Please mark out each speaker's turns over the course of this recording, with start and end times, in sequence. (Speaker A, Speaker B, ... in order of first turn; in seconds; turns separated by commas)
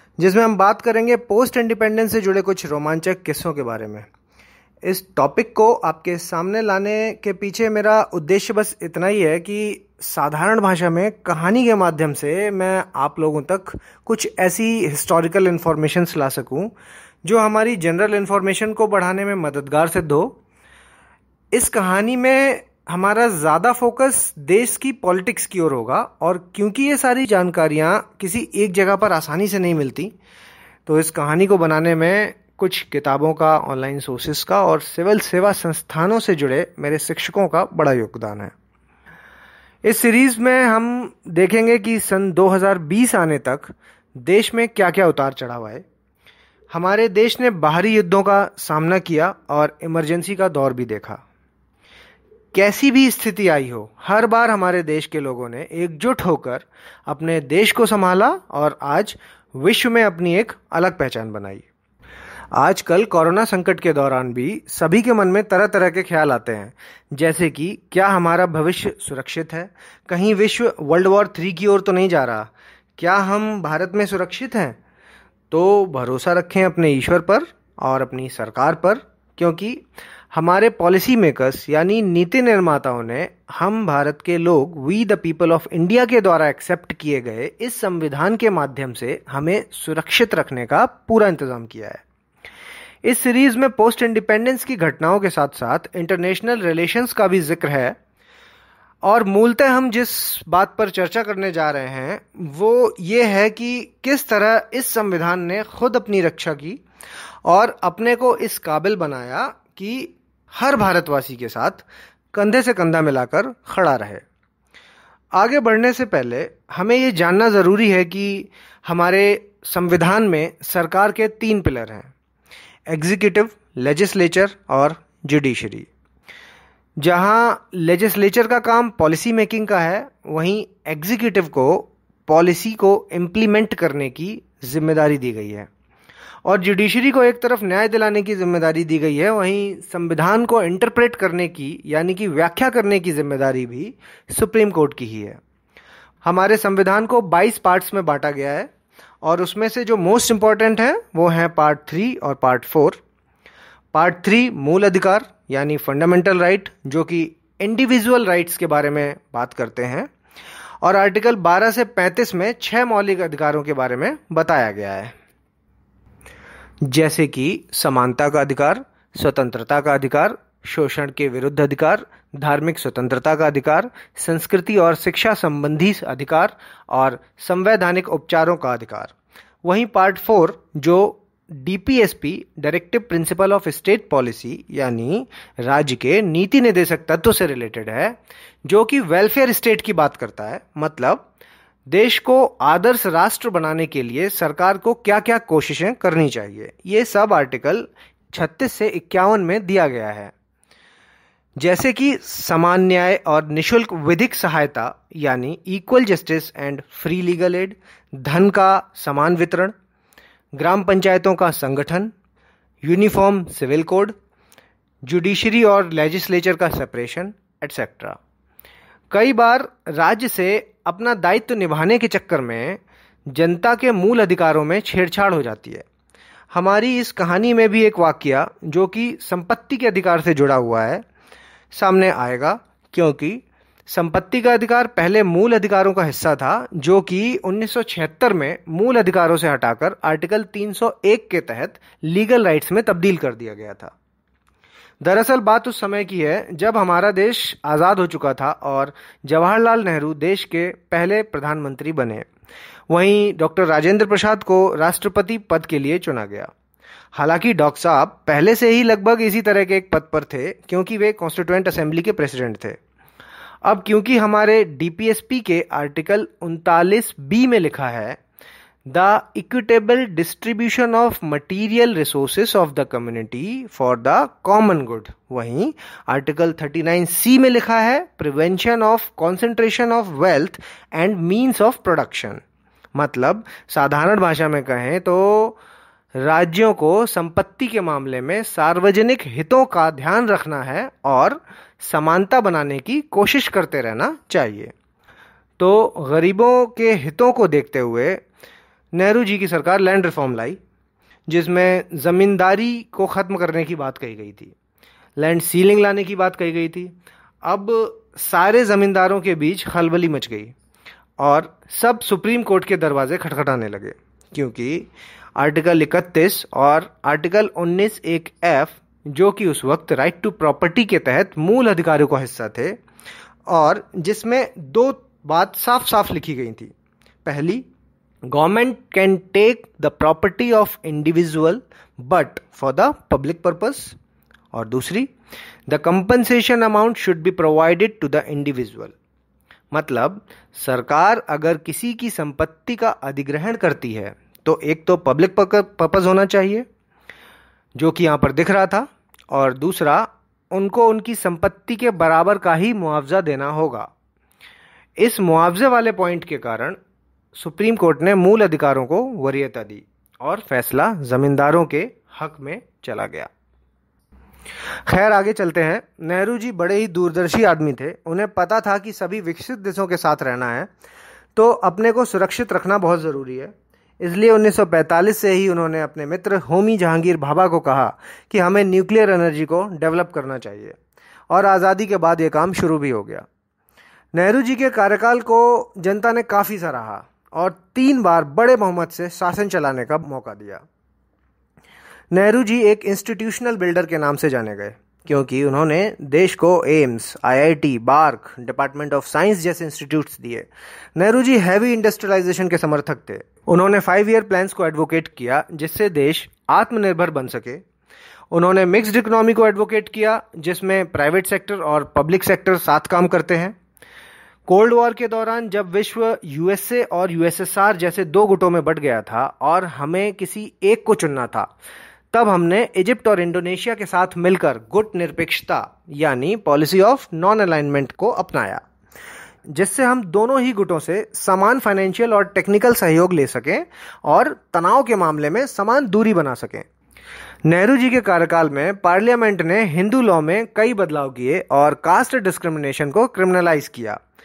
Speaker A: 0.2-4.1, Speaker A: 4.8-16.7, Speaker A: 17.2-20.4, Speaker A: 21.5-30.1, Speaker A: 30.9-38.5, Speaker A: 39.8-45.8, Speaker A: 46.7-51.2, Speaker A: 52.5-61.6, Speaker A: 62.5-74.8, Speaker A: 75.5-92.0, Speaker A: 93.0-98.0, Speaker A: 99.0-106.8, Speaker A: 107.5-114.2, Speaker A: 115.3-122.1, Speaker A: 122.9-125.9, Speaker A: 127.0-135.7, Speaker A: 136.4-145.4, Speaker A: 146.2-148.7, Speaker A: 149.2-153.0, Speaker A: 153.9-160.1, Speaker A: 160.8-165.1, Speaker A: 166.8-179.1, Speaker A: 179.6-191.3, Speaker A: 191.9-200.3, Speaker A: 201.6-209.7, Speaker A: 210.6-212.1, Speaker A: 212.8-214.1, Speaker A: 215.0-218.2, Speaker A: 219.1-225.8, Speaker A: 226.5-231.0, Speaker A: 231.7-243.9, Speaker A: 245.0-252.3, Speaker A: 252.9-256.5, Speaker A: 257.1-262.8, Speaker A: 263.6-268.2, Speaker A: 268.9-282.4, Speaker A: 282.9-285.6, Speaker A: 286.2-294.7, Speaker A: 295.6-298.2, Speaker A: 298.9-300.6, Speaker A: 301.3-304.5, Speaker A: 305.2-310.5, Speaker A: 311.2-322.8, Speaker A: 323.5-326.7, Speaker A: 327.2-327.6, Speaker A: 328.3-334.0, Speaker A: 334.5-335.1, Speaker A: 335.7-338.9, Speaker A: 339.7-346.7, Speaker A: 347.8-353.9, Speaker A: 355.0-356.8, Speaker A: 357.4-363.3, Speaker A: 364.9-370.7, Speaker A: 371.4-380.8, Speaker A: 381.3-383.2, Speaker A: 384.1-390.6, Speaker A: 392.1-407.6, Speaker A: 408.3-413.6, Speaker A: 414.5-421.5, Speaker A: 422.1-428.6, Speaker A: 429.5-436.7, Speaker A: 437.4-444.0